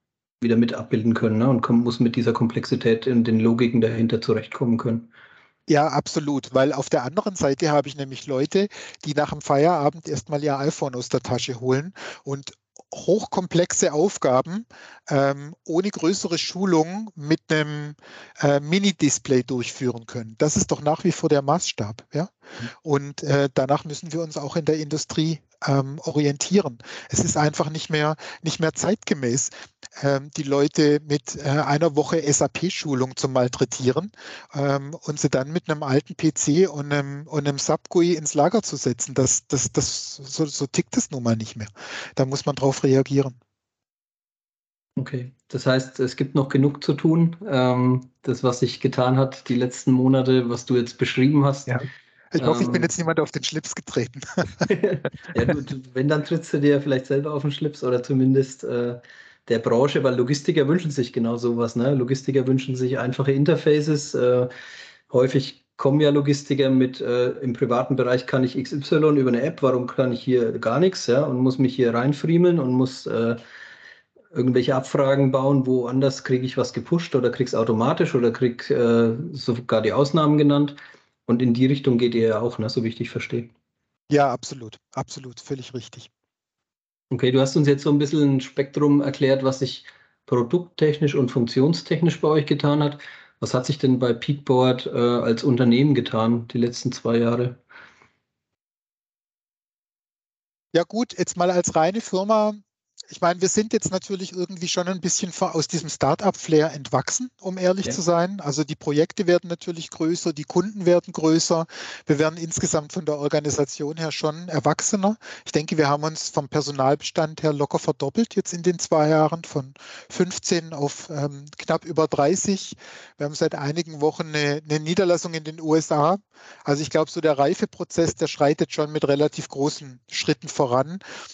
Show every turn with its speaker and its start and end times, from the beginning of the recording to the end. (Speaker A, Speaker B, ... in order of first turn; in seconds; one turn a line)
Speaker A: 0.4-5.1
Speaker B: 5.7-43.4
Speaker A: 45.0-51.8
Speaker B: 51.7-54.7
Speaker A: 52.4-52.9
Speaker A: 54.6-64.5
Speaker A: 65.1-73.4
Speaker A: 74.3-83.5
Speaker B: 84.1-86.1
Speaker A: 87.1-97.6
Speaker B: 100.7-131.0